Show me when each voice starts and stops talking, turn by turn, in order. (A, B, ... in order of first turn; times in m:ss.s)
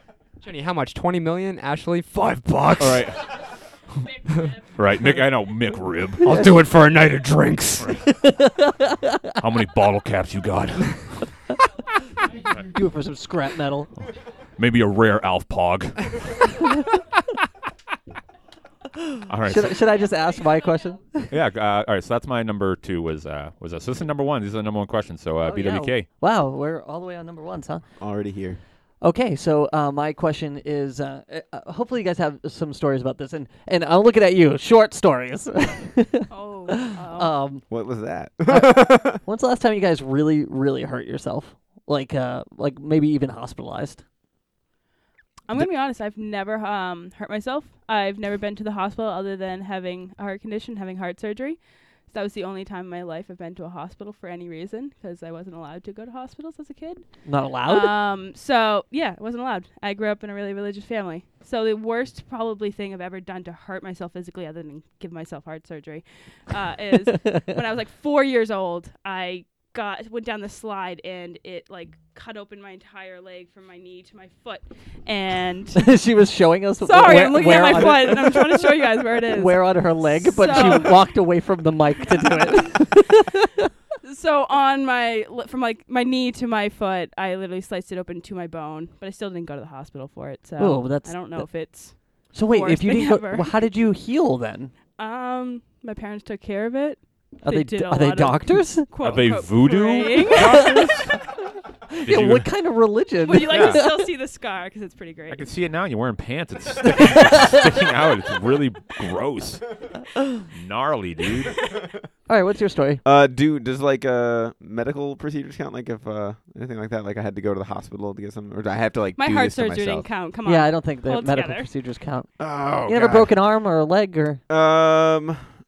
0:00.4-0:03.1 A
0:02.8-0:03.2 B
0:04.7-0:06.3 B
0:06.2-0:08.0 A
0:08.3-0:09.0 C
0:09.4-0:11.2 B
0:12.5-0:13.9 C
0:14.6-0:16.7 B
0:19.3-0:19.9 B
0:19.4-0:21.3 C
0:21.3-0:26.1 B
0:25.4-0:27.8 C
0:28.0-0:28.6 D
0:29.0-0:37.6 C
0:36.3-0:37.3 E
0:37.7-0:39.2 D
0:38.5-0:44.0 C
0:45.5-0:57.1 E
0:57.2-0:57.9 C
0:57.6-1:15.9 E
1:15.8-1:23.6 C
1:16.8-1:21.1 E
1:22.1-1:23.0 E
1:24.0-1:33.6 E
1:30.6-1:34.7 C
1:35.0-1:40.8 E
1:37.4-1:38.9 C
1:39.0-1:41.2 B
1:41.9-1:44.1 C
1:42.0-1:42.5 B
1:43.2-1:45.5 E
1:43.4-1:43.8 B
1:45.3-1:49.6 B
1:50.5-1:51.6 B
1:52.3-1:53.0 C
1:53.0-2:00.1 D
1:59.2-2:01.7 E
2:00.4-2:02.3 C
2:02.4-2:03.4 D
2:02.8-2:04.4 C
2:04.5-2:05.4 D